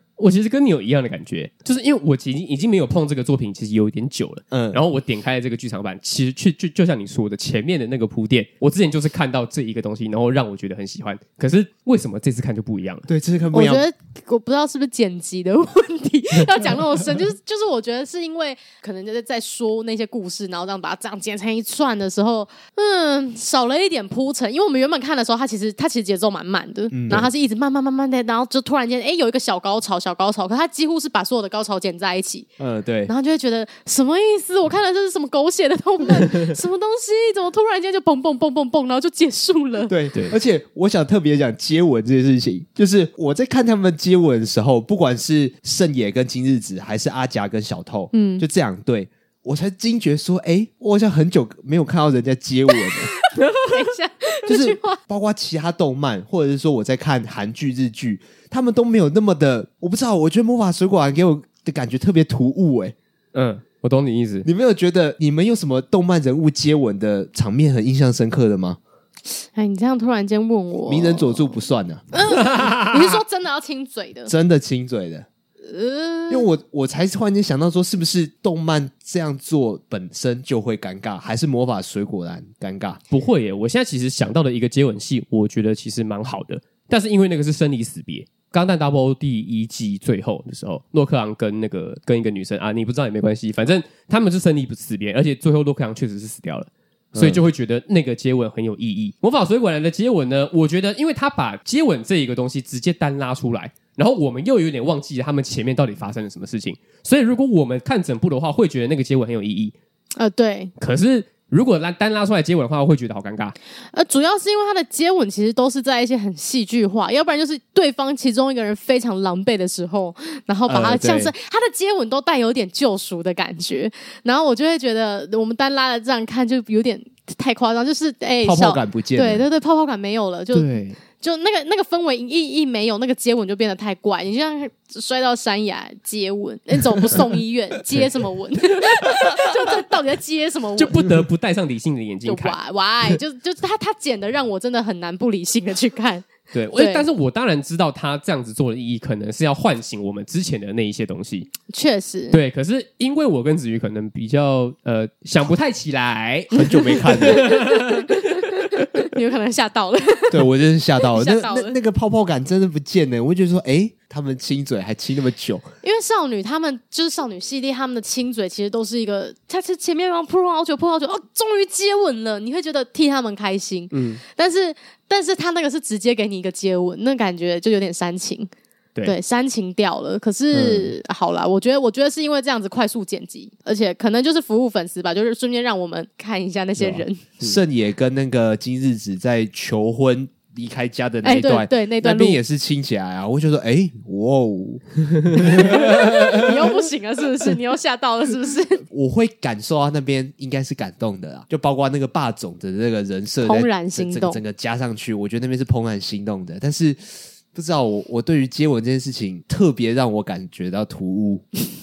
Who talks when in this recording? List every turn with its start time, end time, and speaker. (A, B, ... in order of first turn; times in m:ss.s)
0:00.2-0:13.1 A
0:04.5-0:04.8 B
0:13.1-0:13.8 B
0:13.5-0:32.5 C
0:26.9-0:27.3 B
0:32.6-0:33.1 B
0:33.1-0:39.9 C
0:39.9-0:53.1 B
0:48.1-0:48.4 C
0:53.1-0:55.0 C
0:54.5-1:02.9 B
1:03.3-1:04.4 A
1:04.4-1:08.8 B
1:09.4-1:11.6 C
1:10.9-1:12.0 B
1:12.1-1:14.3 C
1:12.5-1:12.9 A
1:14.3-1:15.3 B
1:15.6-1:16.5 C
1:16.3-1:23.0 B
1:23.1-1:49.7 A
1:37.1-1:37.4 B
1:50.2-1:50.7 C
1:50.8-1:53.6 A
1:53.9-2:21.2 C
2:00.7-2:01.3 B
2:08.4-2:09.4 B
2:10.5-2:11.0 B
2:20.8-2:22.6 A
2:22.2-2:27.0 C
2:26.5-2:31.5 A
2:31.7-2:32.4 C
2:32.3-2:38.8 A
2:36.5-2:37.5 B
2:36.6-2:40.5 C
2:40.3-2:45.7 B
2:41.0-2:41.8 C
2:45.8-2:58.5 C
2:53.9-2:54.2 A
2:59.0-3:07.2 C
3:00.5-3:00.9 B
3:06.8-3:07.6 A
3:07.4-3:16.7 B
3:11.2-3:12.4 C
3:15.5-3:18.8 C
3:18.9-3:31.5 B
3:23.4-3:24.4 C